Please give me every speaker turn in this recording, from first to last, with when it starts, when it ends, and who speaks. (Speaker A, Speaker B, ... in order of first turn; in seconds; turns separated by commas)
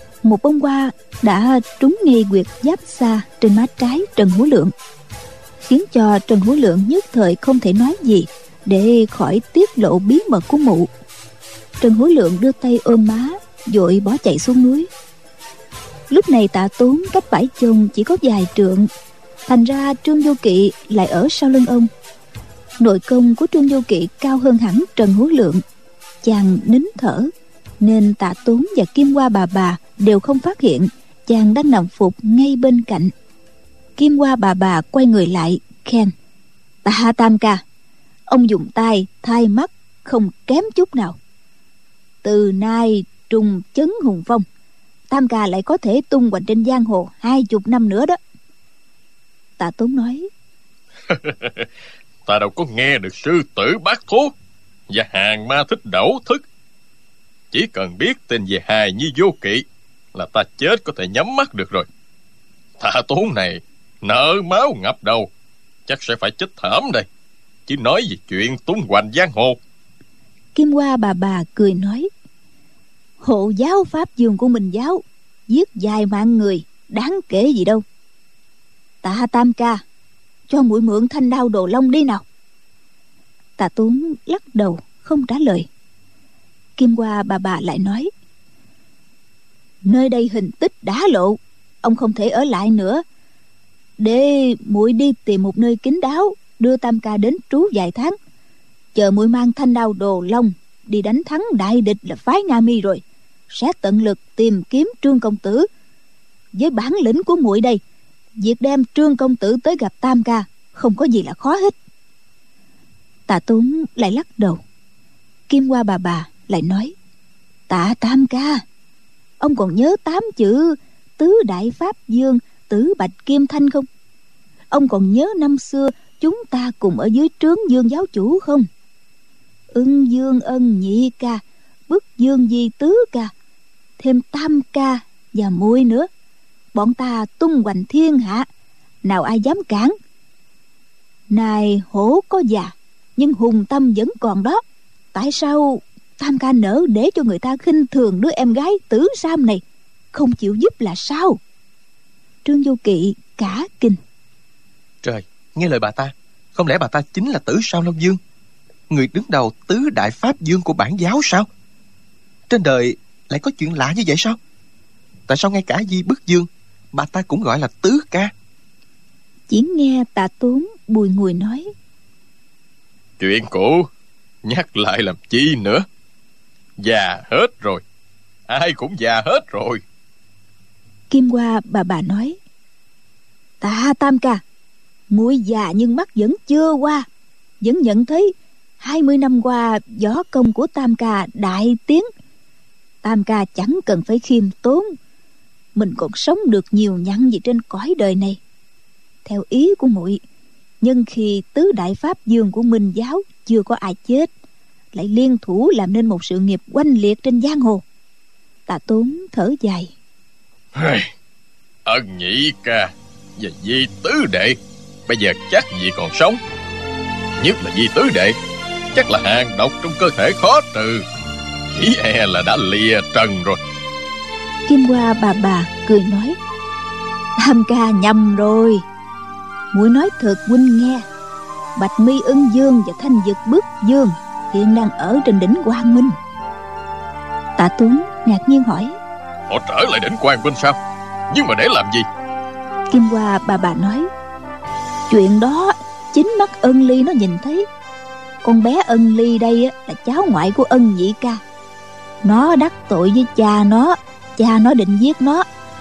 Speaker A: 0.2-4.7, Speaker A: 5.6-10.9, Speaker A: 11.8-14.9, Speaker A: 16.1-18.9, Speaker A: 19.5-21.9, Speaker A: 22.8-25.6, Speaker A: 26.2-33.1, Speaker A: 34.0-36.1, Speaker A: 36.9-37.6, Speaker A: 38.3-41.2, Speaker A: 42.2-44.5, Speaker A: 45.1-48.2, Speaker A: 49.6-50.3, Speaker B: 51.1-51.7, Speaker B: 52.3-54.3, Speaker B: 54.9-56.4, Speaker B: 57.5-61.9, Speaker B: 62.8-65.3, Speaker B: 65.9-67.1, Speaker B: 67.7-69.6, Speaker A: 70.5-72.1, Speaker A: 73.2-77.8, Speaker A: 79.0-79.8, Speaker A: 80.5-82.2, Speaker A: 83.6-85.7, Speaker A: 86.8-88.1, Speaker A: 89.9-93.0, Speaker A: 94.0-98.2, Speaker A: 99.0-105.7, Speaker A: 106.5-107.8, Speaker A: 108.4-111.8, Speaker A: 113.3-114.6, Speaker A: 115.5-116.9, Speaker A: 117.7-118.6, Speaker A: 119.4-123.9, Speaker A: 124.7-128.7, Speaker A: 129.7-133.3, Speaker A: 134.0-136.1, Speaker A: 136.7-138.5, Speaker A: 139.0-139.9, Speaker A: 141.3-144.6, Speaker A: 145.1-149.6, Speaker A: 150.1-151.4, Speaker A: 152.4-154.0, Speaker C: 155.0-158.2, Speaker C: 158.9-161.5, Speaker C: 162.5-164.4, Speaker C: 165.3-168.3, Speaker A: 169.5-171.7, Speaker B: 173.2-173.9, Speaker B: 174.4-175.8, Speaker B: 176.8-177.8, Speaker B: 178.5-179.8, Speaker A: 181.1-182.4, Speaker A: 183.6-184.4, Speaker A: 185.1-187.1, Speaker A: 187.6-192.1, Speaker A: 193.0-194.9, Speaker A: 195.8-198.4, Speaker A: 199.2-200.2, Speaker A: 200.8-204.3, Speaker A: 204.9-207.8, Speaker A: 208.7-209.9, Speaker B: 210.7-211.1, Speaker B: 211.9-216.4, Speaker B: 217.4-218.4, Speaker B: 218.9-221.0, Speaker B: 221.7-223.6, Speaker A: 224.7-226.4, Speaker A: 227.4-228.8, Speaker A: 229.7-231.1, Speaker A: 231.8-236.2, Speaker A: 237.6-239.0, Speaker B: 239.5-240.8, Speaker B: 241.3-242.1, Speaker A: 242.9-244.1, Speaker A: 245.1-247.7, Speaker A: 248.4-251.4, Speaker A: 252.2-255.4